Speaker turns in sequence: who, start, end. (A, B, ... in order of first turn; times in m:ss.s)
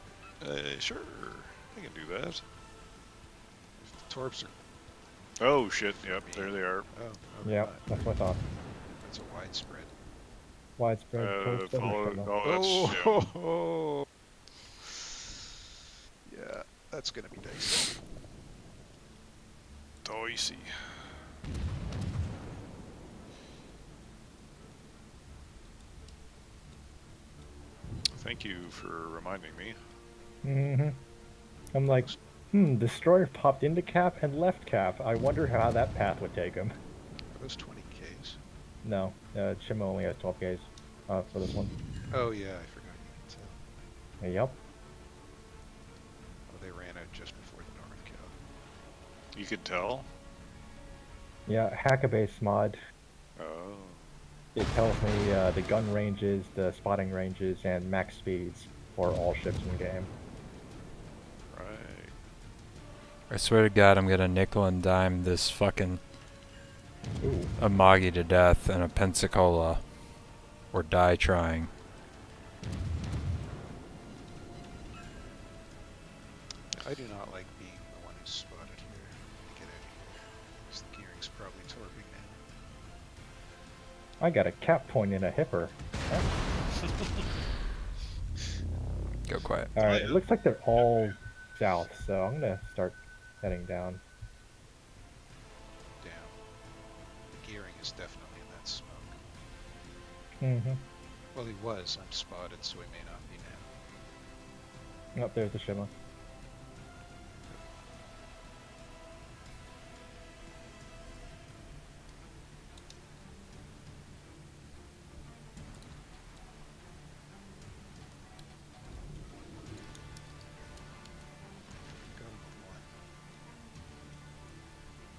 0:00.4-0:02.4 A
0:03.8-0:04.5 B
0:05.4-0:06.9 A
0:06.0-0:08.3 B
0:07.4-0:08.4 C
0:09.0-0:09.9 B
0:10.8-0:12.3 C
0:11.2-0:13.2 A
0:12.4-0:14.0 B
0:16.2-0:18.0 B
0:20.0-0:21.2 A
0:28.1-0:29.8 A
0:30.4-0:31.0 C
0:31.7-0:36.7 C
0:31.9-0:32.2 B
0:37.3-0:38.4 B
0:38.8-0:41.7 C
0:42.1-0:43.6 B
0:44.2-0:44.6 C
0:46.5-0:48.4 B
0:49.3-0:50.1 A
0:51.5-0:52.8 C
0:53.4-0:54.1 A
0:54.5-1:00.1 C
1:01.5-1:02.1 A
1:03.3-1:06.0 D
1:07.2-1:07.5 C
1:07.6-1:09.9 D
1:10.7-1:11.7 D
1:16.7-1:22.4 B
1:24.2-1:26.3 C
1:29.3-1:29.7 D
1:29.7-1:34.0 C
1:29.8-1:30.1 A
1:30.8-1:31.1 A
1:36.0-1:36.4 B
1:37.4-1:39.2 B
1:40.4-1:40.8 C
1:41.3-1:43.7 B
1:45.1-1:45.9 C
2:01.9-2:02.9 B